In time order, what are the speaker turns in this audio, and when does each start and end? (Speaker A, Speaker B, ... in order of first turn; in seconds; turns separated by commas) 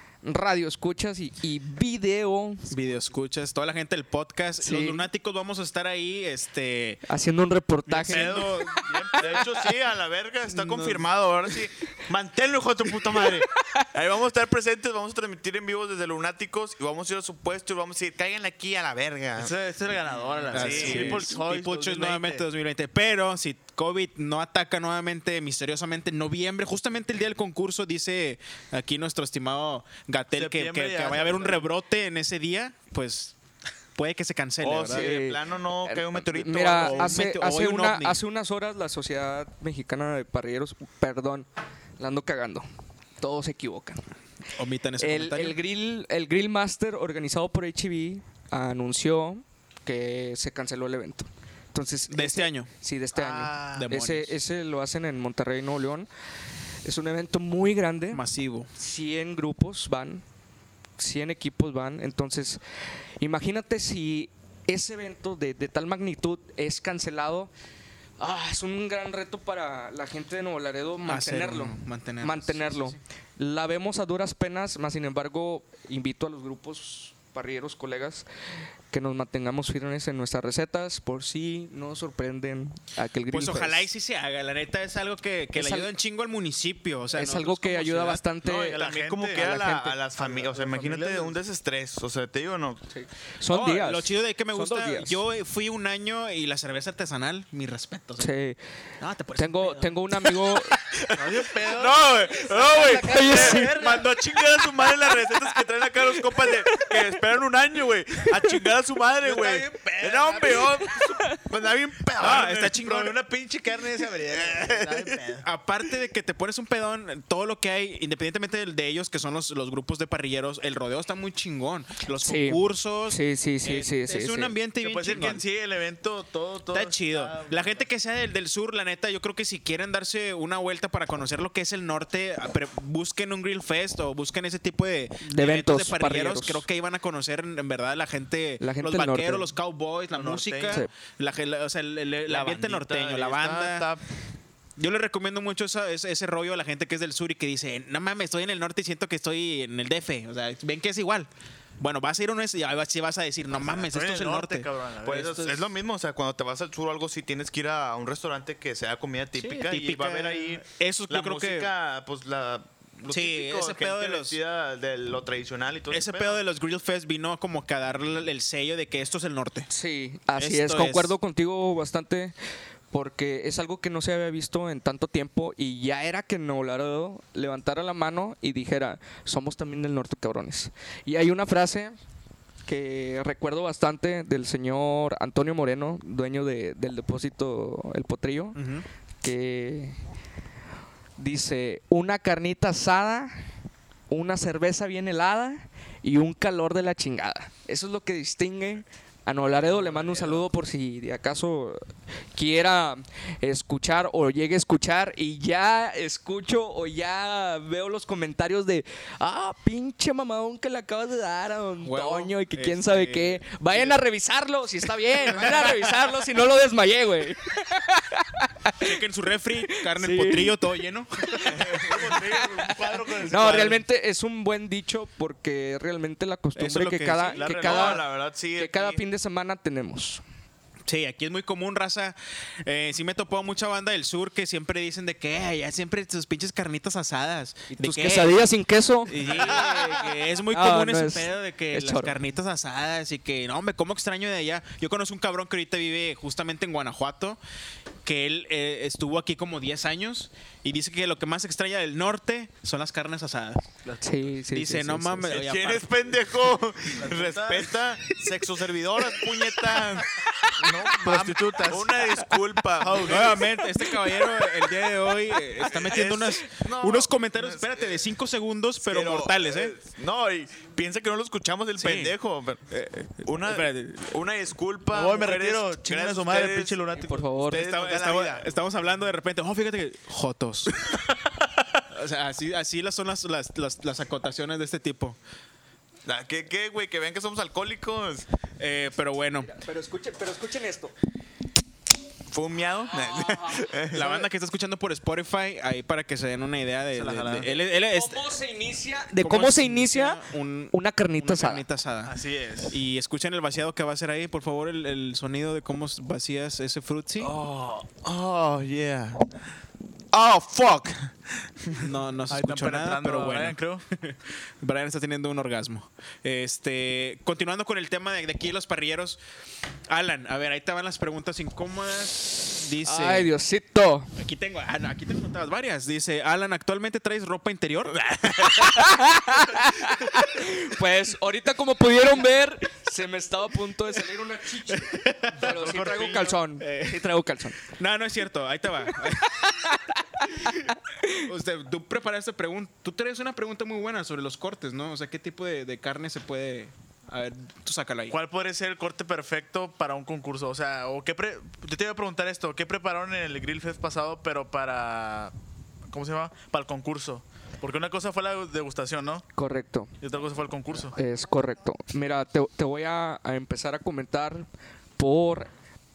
Speaker A: 0.2-2.7, Speaker B: 2.7-7.0, Speaker A: 4.6-5.1, Speaker A: 7.1-9.6, Speaker B: 7.9-9.4, Speaker C: 8.1-19.5, Speaker B: 10.5-11.1, Speaker A: 13.6-13.9, Speaker D: 19.4-22.5, Speaker C: 20.5-21.3, Speaker B: 20.5-33.4, Speaker D: 30.3-31.6, Speaker B: 34.0-35.1, Speaker C: 34.6-37.2, Speaker A: 34.9-41.5, Speaker B: 36.7-38.2, Speaker A: 42.0-42.7, Speaker A: 43.2-44.0, Speaker B: 44.6-45.6, Speaker A: 45.0-56.1, Speaker B: 52.1-52.7, Speaker D: 53.1-53.9, Speaker B: 53.7-54.3, Speaker A: 56.8-58.2, Speaker B: 58.1-58.7, Speaker A: 58.8-60.2, Speaker A: 61.0-62.6, Speaker A: 63.2-67.5, Speaker A: 68.2-78.3, Speaker B: 71.1-73.0, Speaker A: 78.9-83.9, Speaker B: 83.3-88.2, Speaker A: 85.5-85.9, Speaker A: 87.2-88.8, Speaker D: 88.4-89.5, Speaker C: 88.4-92.8, Speaker A: 89.3-90.0, Speaker D: 90.2-91.4, Speaker A: 92.9-95.2, Speaker B: 93.5-98.3, Speaker A: 98.2-98.6, Speaker B: 99.0-100.5, Speaker A: 99.3-100.8, Speaker C: 100.9-113.1, Speaker D: 101.1-104.2, Speaker A: 103.0-103.8, Speaker A: 106.7-107.0, Speaker D: 109.2-111.2, Speaker A: 111.0-111.4, Speaker B: 112.2-113.2, Speaker D: 112.4-115.5, Speaker C: 114.0-115.3, Speaker B: 115.4-125.4, Speaker A: 122.2-124.5, Speaker D: 124.8-127.8, Speaker B: 126.7-143.9, Speaker A: 135.2-136.7, Speaker A: 138.6-139.5, Speaker D: 140.1-140.8, Speaker C: 142.3-144.0, Speaker B: 144.8-154.7, Speaker D: 153.5-155.7, Speaker C: 155.0-166.4, Speaker B: 159.3-161.7, Speaker B: 163.1-164.4, Speaker B: 165.9-169.7, Speaker A: 169.7-172.3, Speaker B: 170.4-171.2, Speaker A: 172.9-182.0, Speaker A: 182.7-188.6, Speaker B: 188.6-188.8, Speaker A: 189.2-190.0, Speaker A: 191.2-193.5, Speaker A: 194.1-219.0, Speaker D: 199.7-200.3, Speaker B: 211.8-214.0, Speaker B: 215.2-215.8, Speaker B: 218.8-221.8, Speaker A: 219.7-220.6, Speaker A: 221.2-222.7, Speaker D: 221.5-223.8, Speaker C: 221.6-222.0, Speaker A: 223.2-230.2, Speaker B: 226.6-227.4, Speaker C: 227.4-229.0, Speaker D: 227.6-228.0, Speaker B: 230.9-238.4, Speaker A: 237.7-239.7, Speaker B: 239.1-247.4, Speaker D: 239.3-239.6, Speaker A: 240.5-242.2, Speaker B: 248.0-253.6, Speaker D: 253.8-254.2, Speaker A: 254.0-255.3, Speaker B: 254.5-256.2, Speaker C: 255.2-263.4, Speaker D: 256.9-257.8, Speaker D: 260.6-262.2, Speaker D: 262.8-263.4, Speaker B: 263.0-269.8, Speaker C: 265.7-268.0, Speaker C: 268.8-272.6, Speaker B: 271.8-272.2, Speaker B: 272.7-274.2, Speaker C: 273.2-278.5, Speaker D: 274.9-277.3, Speaker A: 276.9-277.7, Speaker B: 277.5-280.8, Speaker C: 280.9-281.6, Speaker B: 281.9-285.2, Speaker C: 286.1-288.3, Speaker B: 288.6-289.5, Speaker A: 289.4-290.9, Speaker C: 292.3-294.1, Speaker A: 292.9-294.2, Speaker B: 293.9-298.3, Speaker D: 296.9-297.5, Speaker A: 297.7-301.6, Speaker B: 299.2-302.1, Speaker D: 302.1-302.8, Speaker B: 302.7-307.3, Speaker C: 307.2-309.3, Speaker C: 310.1-311.8, Speaker B: 311.8-319.2, Speaker D: 312.3-313.8, Speaker B: 319.9-323.3, Speaker A: 322.8-324.1, Speaker B: 324.2-328.6, Speaker A: 328.4-337.6, Speaker B: 334.7-337.0, Speaker D: 335.5-336.1, Speaker B: 337.7-339.6, Speaker A: 339.4-341.3, Speaker B: 341.1-348.2, Speaker D: 348.1-355.3, Speaker D: 355.9-359.3, Speaker A: 359.4-359.9, Speaker D: 360.0-360.9, Speaker A: 360.9-364.5, Speaker A: 365.0-365.5